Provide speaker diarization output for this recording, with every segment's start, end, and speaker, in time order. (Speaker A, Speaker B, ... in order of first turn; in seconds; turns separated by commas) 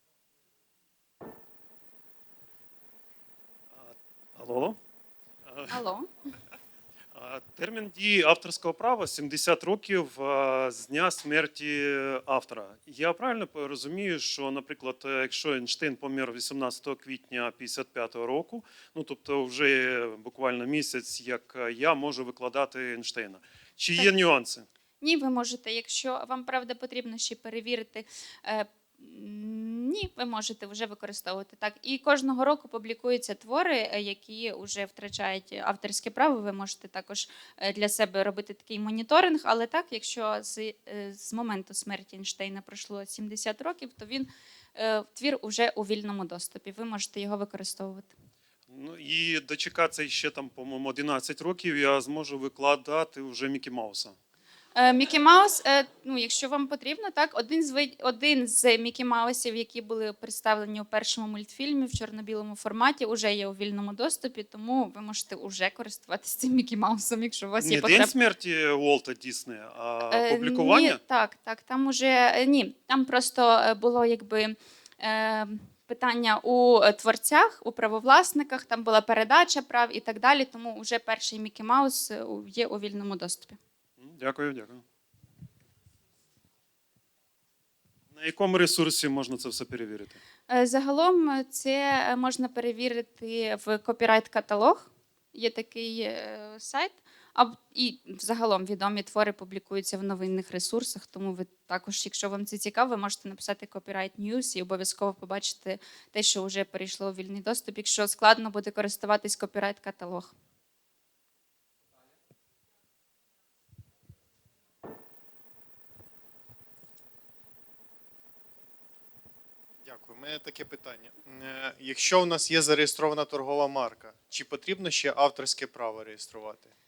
Speaker A: 3.7-4.8, Speaker A: 5.5-5.8, Speaker B: 5.7-6.1, Speaker A: 7.1-24.7, Speaker B: 25.0-48.1, Speaker A: 48.7-54.1, Speaker B: 54.8-68.2, Speaker A: 67.6-71.0, Speaker B: 70.1-83.6, Speaker A: 84.0-84.8, Speaker A: 88.1-90.2, Speaker B: 90.5-110.3, Speaker C: 119.8-126.7